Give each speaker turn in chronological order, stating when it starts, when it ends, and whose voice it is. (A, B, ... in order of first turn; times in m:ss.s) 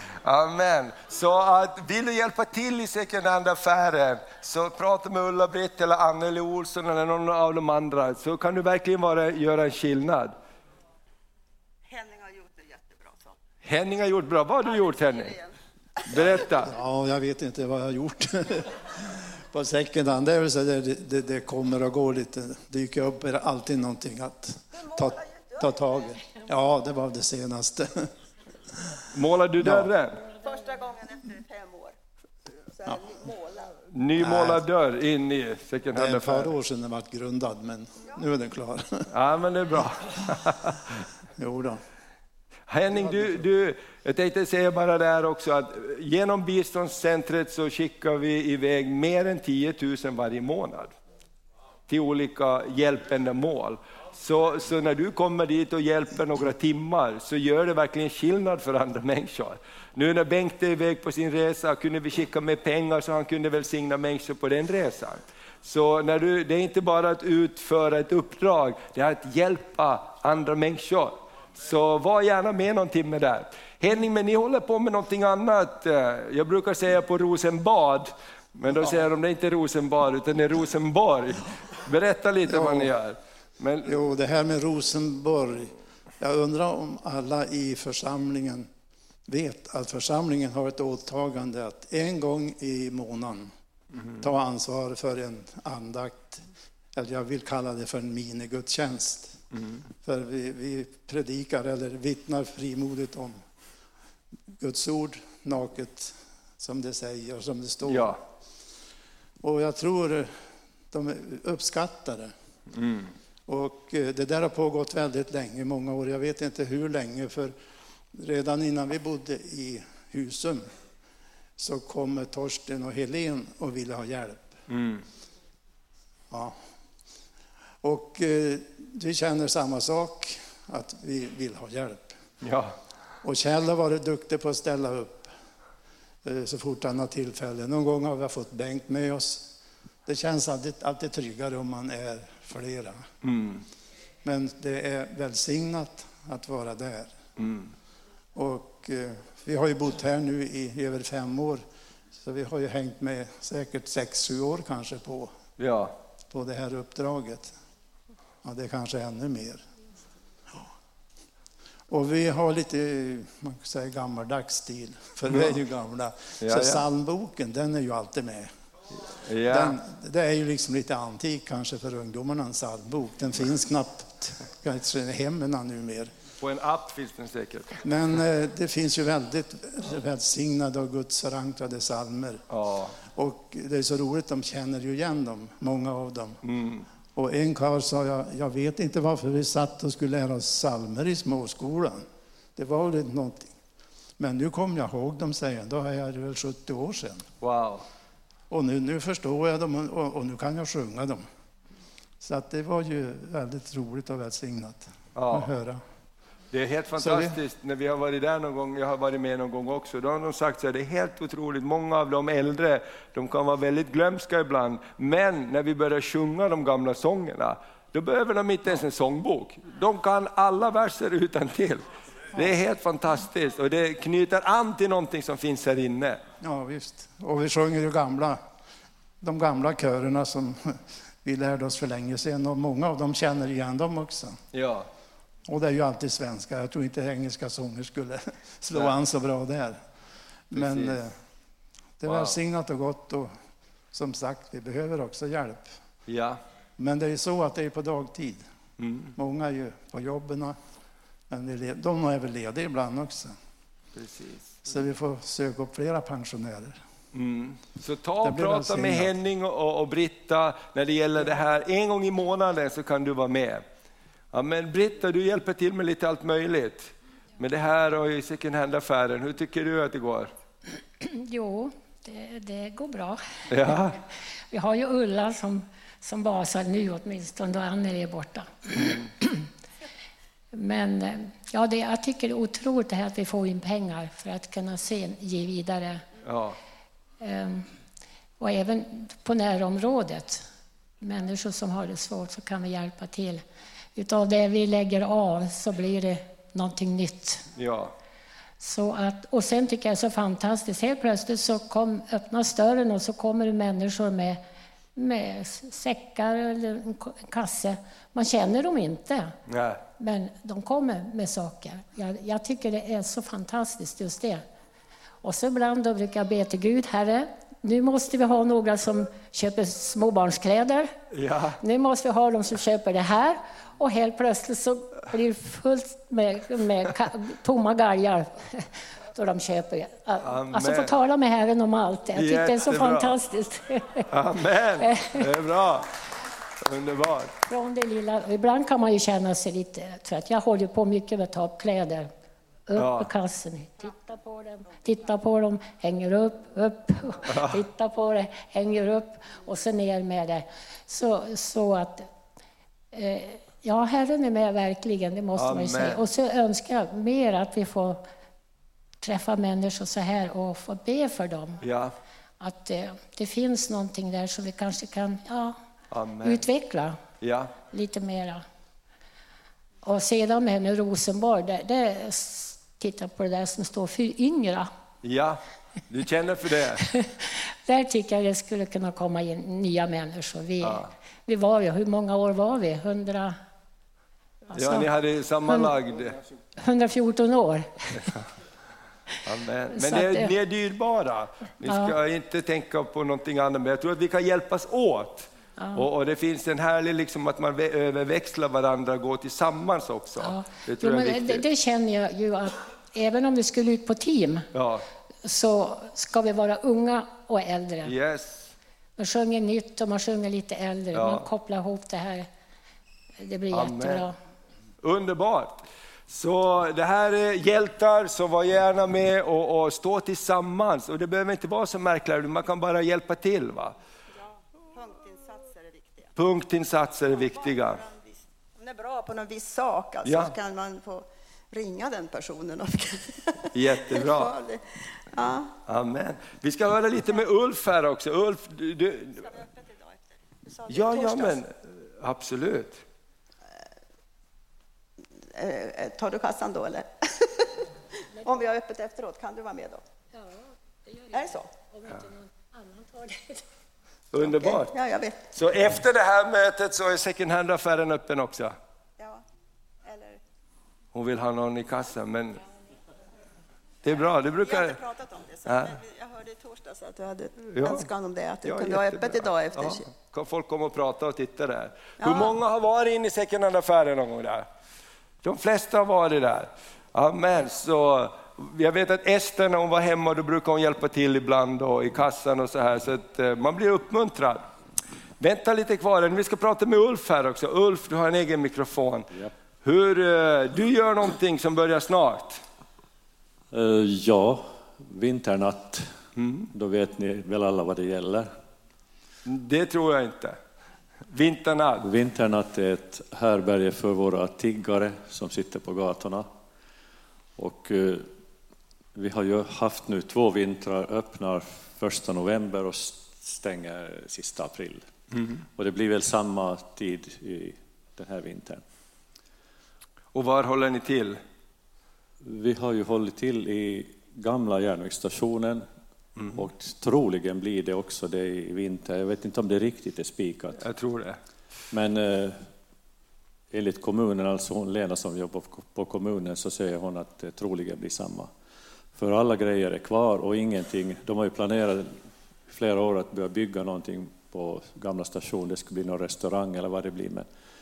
0:00.2-0:10.4 A
0:11.9-0:13.3 B
0:13.6-0:15.4 A
0:14.9-0:15.5 B
0:16.1-0:16.7 A
0:16.3-0:28.1 C
0:29.1-0:30.2 A
0:29.6-0:29.9 C
0:30.4-0:32.0 B
0:32.8-0:33.7 B
0:33.9-0:36.5 A
0:34.2-0:34.6 C
0:35.9-0:39.1 C
0:39.1-0:40.9 A
0:41.4-0:41.8 C
0:42.7-0:50.9 A
0:42.9-0:43.4 C
0:51.9-1:24.0 A
1:22.5-1:22.9 C
1:23.9-1:28.7 C
1:29.3-1:33.5 C
1:34.0-1:34.2 A
1:34.2-1:36.4 C
1:37.0-1:39.4 C
1:39.5-1:39.8 A
1:40.0-1:43.4 C
1:44.6-1:48.2 C
1:47.9-1:48.2 A
1:49.4-1:50.3 C
1:50.9-1:52.3 C
1:52.7-1:53.1 A
1:53.5-1:57.6 C
1:58.1-2:00.7 C
2:01.6-2:04.5 C
2:04.7-2:05.0 A
2:06.3-2:06.6 C
2:07.8-2:12.1 C
2:12.4-2:12.8 A
2:13.2-2:15.3 C
2:16.2-2:19.6 C
2:20.1-2:23.0 C
2:23.2-2:23.6 A
2:24.2-2:27.2 C
2:27.4-2:27.7 A
2:28.4-2:31.6 C
2:32.2-2:35.3 C
2:35.6-2:35.9 A
2:36.3-2:37.6 C
2:38.4-2:39.6 C
2:41.9-2:48.5 C
2:45.3-2:45.6 A
2:46.4-2:46.8 A
2:49.3-2:49.8 A
2:49.4-2:56.1 C
2:56.4-2:57.8 A
2:57.8-3:02.4 C
3:02.5-3:03.0 A
3:03.0-3:06.4 C
3:06.4-3:06.9 A
3:07.2-3:12.0 C
3:12.6-3:13.6 C
3:14.2-3:17.3 C
3:17.4-3:17.9 A
3:18.5-3:21.3 C
3:22.2-3:25.8 C
3:25.2-3:25.5 A
3:26.5-3:46.2 A
3:27.0-3:27.4 C
3:46.4-3:48.4 C
3:49.2-3:54.4 C
3:54.5-3:54.9 A
3:55.5-3:59.8 C
4:00.5-4:01.1 C
4:00.6-4:01.0 A
4:02.0-4:03.3 C
4:02.0-4:02.4 A
4:03.9-4:05.7 C
4:06.1-4:06.4 A
4:06.8-4:08.4 C
4:08.8-4:09.2 A
4:09.2-4:10.6 C
4:11.3-4:13.4 C
4:14.0-4:14.6 A
4:14.7-4:16.8 C
4:17.1-4:23.6 A
4:18.2-4:19.2 C
4:24.3-4:30.3 A
4:31.0-4:34.0 D
4:33.5-4:34.0 A
4:34.5-4:39.5 D
4:40.5-4:46.0 D
4:46.2-4:46.6 A
4:47.2-4:47.7 D
4:48.4-4:50.5 D
4:51.0-4:53.4 D
4:54.0-4:57.4 D
4:57.6-4:57.9 A
4:58.6-5:04.4 D
5:05.0-5:09.3 D
5:09.5-5:09.8 A
5:10.0-5:14.4 D
5:15.2-5:20.9 D
5:21.1-5:21.6 A
5:21.6-5:34.1 D
5:30.2-5:30.9 A
5:32.2-5:33.2 A
5:34.1-5:35.9 A
5:34.8-5:35.3 D
5:36.6-5:37.3 A
5:37.4-5:42.1 D
5:42.7-5:52.1 D
5:42.8-5:43.1 A
5:47.3-5:47.6 A
5:52.9-5:58.0 D
5:55.4-5:56.1 A
5:59.0-6:01.6 D
6:01.6-6:01.9 A
6:02.4-6:05.6 D
6:05.9-6:06.4 A
6:06.2-6:07.0 D
6:07.2-6:07.5 A
6:07.7-6:08.4 D
6:09.8-6:14.7 D
6:15.0-6:16.9 A
6:16.9-6:23.4 D
6:20.6-6:20.9 A
6:24.5-6:24.9 D
6:24.6-6:26.2 A
6:26.6-6:28.2 D
6:29.2-6:41.5 A
6:29.7-6:30.3 D
6:31.6-6:32.0 D
6:35.6-6:35.9 D
6:40.2-6:44.5 D
6:44.5-6:44.8 A
6:45.2-6:47.9 D
6:47.8-6:48.5 A
6:49.0-6:52.3 D
6:50.9-6:51.3 A
6:53.2-6:54.2 D
6:53.5-6:54.1 A
6:54.8-7:03.8 A
7:04.7-7:06.1 B
7:06.2-7:07.8 A
7:07.1-7:15.5 B
7:10.0-7:10.3 A
7:13.5-7:14.4 A
7:15.7-7:19.3 A
7:19.2-7:21.4 B
7:20.7-7:22.8 A
7:25.4-7:27.7 B
7:28.2-7:29.8 B
7:30.2-7:31.2 D
7:31.1-7:31.5 B
7:31.7-7:33.4 D
7:34.1-7:34.7 A
7:34.3-7:35.2 B
7:35.3-7:38.5 A
7:39.0-7:39.2 B
7:39.8-7:40.2 B
7:40.9-7:42.4 A
7:43.8-7:44.8 A
7:44.4-7:49.9 B
7:45.5-7:45.8 A
7:47.5-7:47.9 A
7:48.4-7:54.5 A
7:52.0-7:52.3 B
7:55.2-8:04.4 A
8:05.2-8:09.1 A
8:09.6-8:12.4 A
8:13.5-8:15.9 E
8:16.2-8:16.5 A
8:16.5-8:18.3 E
8:19.3-8:20.4 A
8:21.1-8:21.9 A
8:21.8-8:26.3 E
8:27.4-8:28.1 E
8:29.0-8:34.9 E
8:35.6-8:38.6 E
8:40.1-8:41.2 A
8:42.2-8:45.6 E
8:46.2-8:46.5 A
8:46.4-8:50.6 E
8:50.6-8:51.2 A
8:51.7-8:52.5 E
8:53.5-8:58.3 E
8:59.0-9:07.3 E